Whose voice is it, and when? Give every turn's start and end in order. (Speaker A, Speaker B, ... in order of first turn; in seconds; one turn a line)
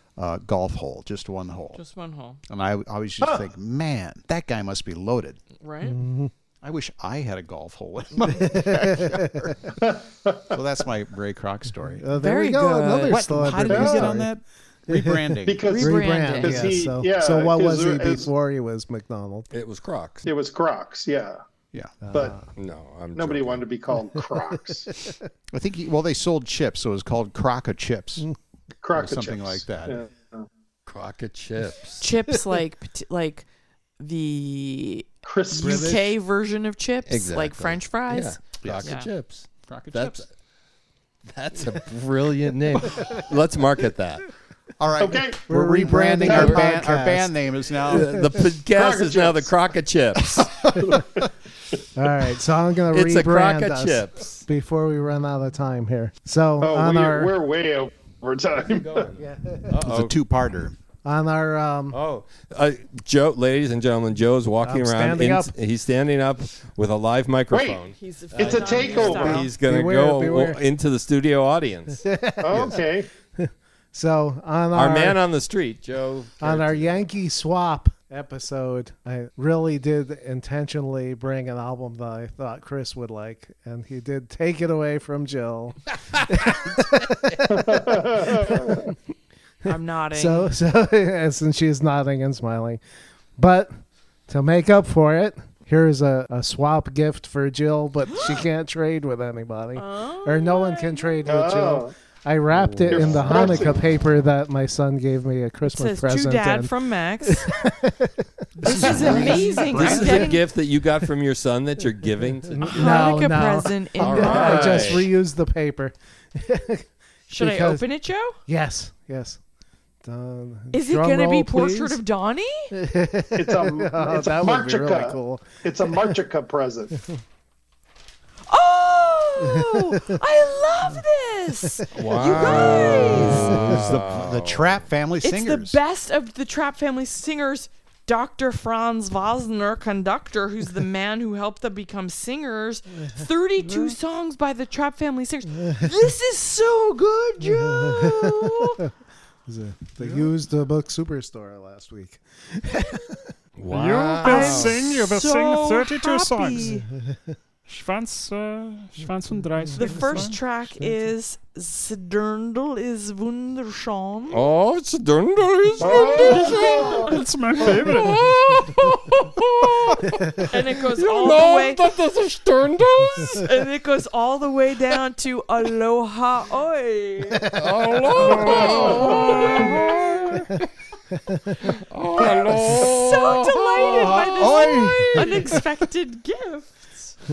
Speaker A: 0.2-1.8
Speaker B: 1.8-2.4
Speaker A: 2.5-5.4
Speaker C: 3.2-3.5
Speaker B: 5.6-6.0
Speaker D: 5.9-6.3
Speaker A: 6.6-9.8
Speaker D: 8.4-9.5
Speaker C: 9.8-10.6
Speaker A: 10.5-12.1
Speaker D: 12.0-14.3
Speaker B: 12.2-13.7
Speaker A: 13.1-15.6
Speaker C: 13.7-14.2
Speaker D: 14.9-19.5
Speaker C: 15.5-18.3
Speaker B: 15.7-16.8
Speaker E: 19.5-20.3
Speaker C: 20.2-21.4
Speaker A: 21.7-22.1
Speaker D: 22.0-22.5
Speaker E: 22.6-23.6
Speaker C: 23.1-25.0
Speaker D: 24.9-25.2
Speaker A: 25.5-28.2
Speaker C: 28.8-30.5
Speaker A: 28.9-30.0
Speaker E: 30.9-32.1
Speaker B: 32.0-33.5
Speaker B: 34.0-39.1
Speaker C: 35.2-36.1
Speaker D: 35.6-36.1
Speaker E: 37.1-40.3
Speaker A: 38.6-38.9
Speaker A: 39.7-40.2
Speaker E: 41.2-44.3
Speaker A: 44.8-48.2
Speaker C: 45.0-45.5
Speaker D: 45.5-47.3
Speaker C: 46.2-46.7
Speaker E: 47.9-50.7
Speaker C: 48.7-49.5
Speaker C: 50.8-51.3
Speaker D: 52.0-57.3
Speaker E: 52.9-54.5
Speaker C: 56.6-59.1
Speaker E: 58.5-60.2
Speaker D: 59.2-59.8
Speaker A: 59.8-60.8
Speaker D: 61.0-62.0
Speaker E: 61.9-72.0
Speaker D: 64.6-65.5
Speaker C: 67.5-67.8
Speaker B: 68.0-69.5
Speaker C: 68.4-69.5
Speaker D: 69.6-70.6
Speaker D: 72.0-72.8
Speaker C: 72.4-73.1
Speaker D: 73.4-75.2
Speaker E: 74.7-77.1
Speaker D: 76.4-88.9
Speaker E: 86.1-86.8
Speaker C: 87.5-88.9
Speaker B: 89.7-90.5
Speaker D: 89.7-92.8
Speaker D: 93.4-93.7
Speaker D: 94.3-106.7
Speaker B: 98.1-98.4
Speaker B: 99.8-101.2
Speaker C: 101.2-101.9
Speaker A: 102.5-103.8
Speaker C: 102.9-103.8
Speaker B: 105.7-107.5
Speaker D: 107.2-110.0
Speaker B: 108.6-110.4
Speaker A: 108.6-110.4
Speaker E: 108.8-113.3
Speaker D: 112.5-117.8
Speaker B: 112.6-115.1
Speaker E: 114.0-115.1
Speaker B: 117.3-118.4
Speaker D: 118.5-119.4
Speaker D: 120.0-122.0
Speaker B: 120.7-122.7
Speaker D: 122.7-125.6
Speaker C: 123.4-127.0
Speaker B: 128.5-133.6
Speaker D: 129.5-130.2
Speaker D: 131.8-133.8
Speaker E: 131.9-134.9
Speaker A: 133.4-135.8
Speaker B: 135.2-148.8
Speaker D: 143.0-143.9
Speaker D: 147.4-148.7
Speaker D: 149.5-153.3
Speaker E: 153.6-154.8
Speaker F: 153.7-156.8
Speaker B: 154.2-156.9
Speaker F: 157.7-160.4
Speaker B: 159.8-164.4
Speaker E: 164.3-173.4
Speaker C: 165.8-167.2
Speaker B: 165.8-167.0
Speaker F: 166.4-168.2
Speaker D: 170.0-170.5
Speaker B: 170.5-171.8
Speaker B: 173.2-177.5
Speaker E: 177.5-180.7
Speaker B: 178.2-179.9
Speaker C: 178.4-179.6
Speaker D: 180.3-180.6
Speaker D: 181.3-181.6
Speaker E: 181.6-185.0
Speaker B: 182.2-187.2
Speaker A: 183.8-185.6